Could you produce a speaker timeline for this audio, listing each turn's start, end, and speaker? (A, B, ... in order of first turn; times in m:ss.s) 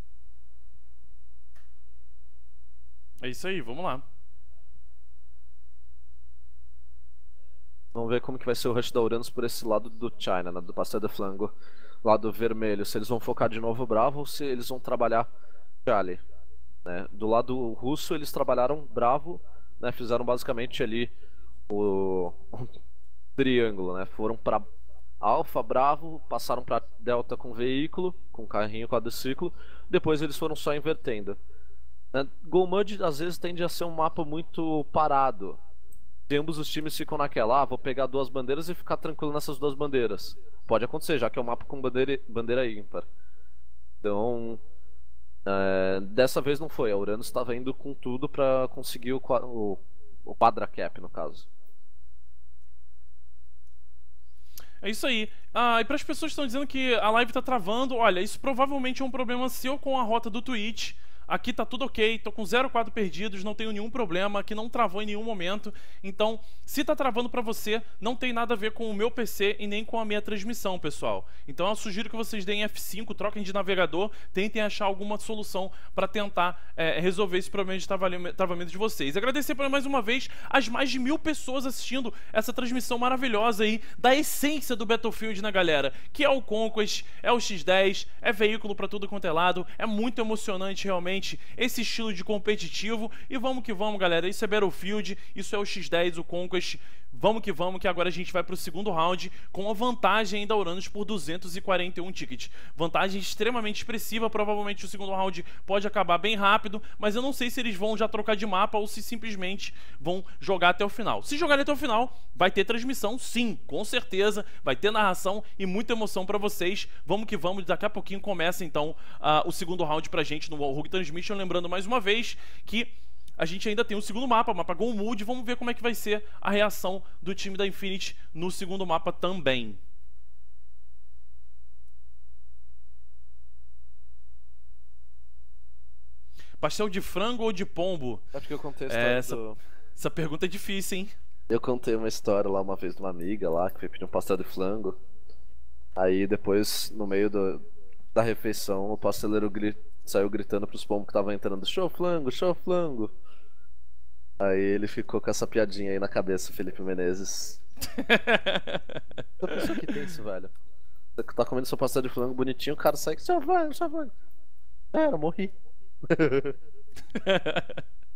0:03.2-0:04.0 A
0:07.9-0:11.5 B
0:12.0-0:15.3 B
0:15.9-0:16.2 B
0:16.8-0:21.1 B
0:21.7-0:22.8 B
0:23.4-0:24.6 B
0:25.2-0:31.4 B
0:32.1-0:35.6 B
0:36.3-0:43.1 B
0:44.0-0:44.6 B
0:45.5-0:51.5 B
0:54.8-2:09.8 A
2:16.6-2:18.2 A
2:18.3-2:19.6 B
2:18.9-2:19.4 A
2:20.0-2:21.1 A
2:21.5-2:25.0 B
2:26.0-2:27.6 B
2:28.1-2:33.1 B
2:34.4-2:37.6 B
2:37.9-2:39.0 A
2:39.4-2:40.5 B
2:39.5-2:39.9 A
2:41.2-2:44.1 B
2:44.9-2:46.6 B
2:47.1-2:47.8 A